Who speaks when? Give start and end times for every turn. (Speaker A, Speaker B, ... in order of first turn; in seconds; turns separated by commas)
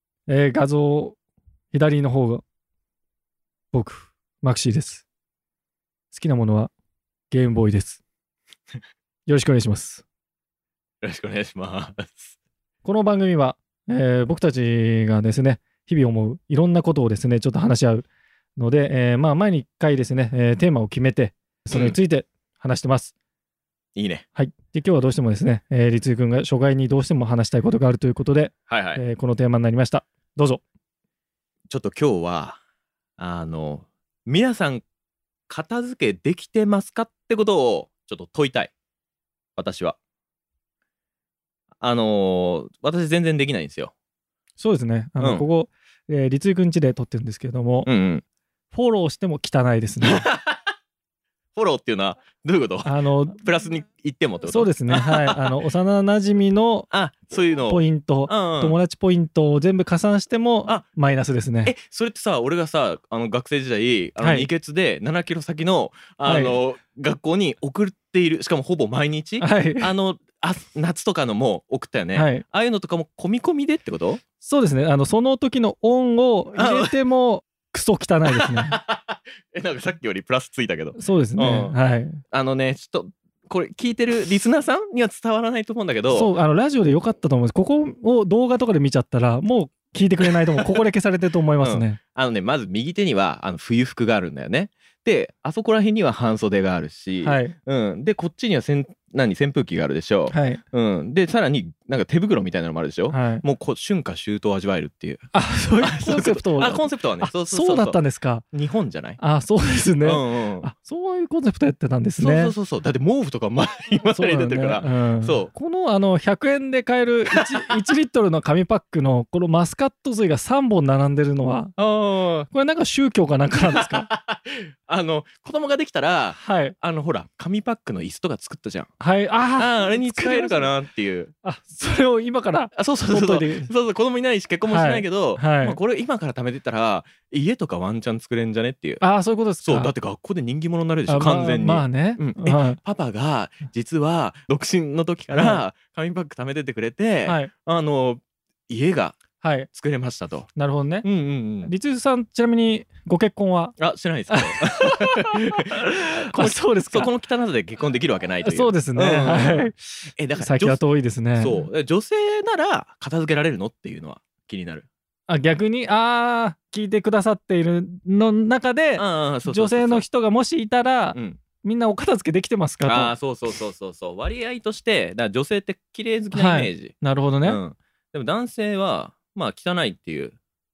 Speaker A: 0.3-1.2, Speaker A: 1.7-2.4, Speaker A: 3.7-5.0, Speaker A: 6.1-6.7, Speaker A: 7.3-8.0, Speaker A: 9.3-10.0, Speaker B: 11.0-12.3, Speaker A: 12.8-23.1, Speaker B: 23.9-24.2, Speaker A: 24.4-30.6, Speaker B: 28.7-29.0, Speaker B: 31.7-32.6, Speaker B: 33.2-34.8, Speaker B: 35.5-38.7, Speaker B: 39.5-40.0, Speaker B: 41.8-43.9, Speaker A: 44.6-47.9, Speaker B: 45.2-45.5, Speaker B: 47.8-48.2, Speaker A: 48.7-50.2, Speaker B: 50.0-50.6, Speaker B: 51.5-55.5, Speaker A: 52.8-53.4, Speaker A: 54.5-56.9, Speaker B: 56.9-58.8, Speaker A: 57.7-61.7, Speaker B: 61.6-74.2, Speaker A: 64.2-64.5, Speaker A: 66.2-66.5, Speaker A: 69.4-69.9, Speaker A: 72.1-72.4, Speaker A: 74.4-78.8, Speaker B: 76.5-76.9, Speaker B: 78.3-81.8, Speaker A: 80.9-82.2, Speaker B: 82.3-86.3, Speaker A: 86.1-92.0, Speaker B: 90.3-90.6, Speaker B: 91.6-108.0, Speaker A: 97.2-97.5, Speaker A: 100.3-100.6, Speaker A: 103.1-103.4, Speaker A: 105.3-108.4, Speaker B: 108.5-109.2, Speaker A: 109.2-112.5, Speaker B: 110.0-110.7, Speaker B: 112.2-115.5, Speaker A: 114.1-121.7, Speaker B: 121.8-122.5, Speaker A: 122.5-124.1, Speaker B: 123.7-128.9, Speaker A: 126.3-126.8, Speaker A: 129.0-130.7, Speaker B: 129.6-131.3, Speaker A: 131.4-133.7, Speaker B: 132.7-139.0, Speaker A: 134.7-135.8, Speaker A: 139.0-139.9, Speaker B: 139.6-149.2, Speaker A: 141.1-142.8, Speaker A: 145.3-145.6, Speaker A: 147.2-147.5, Speaker A: 149.4-149.7, Speaker B: 149.7-150.5, Speaker A: 150.6-151.1, Speaker B: 151.0-151.7, Speaker A: 151.6-153.7, Speaker B: 153.8-160.8, Speaker A: 154.3-157.1, Speaker A: 158.4-159.8, Speaker A: 160.3-161.7, Speaker B: 161.4-164.9, Speaker A: 165.3-173.1, Speaker B: 168.9-170.0, Speaker B: 171.1-171.4, Speaker B: 172.8-176.9, Speaker A: 176.3-177.6, Speaker B: 177.4-180.3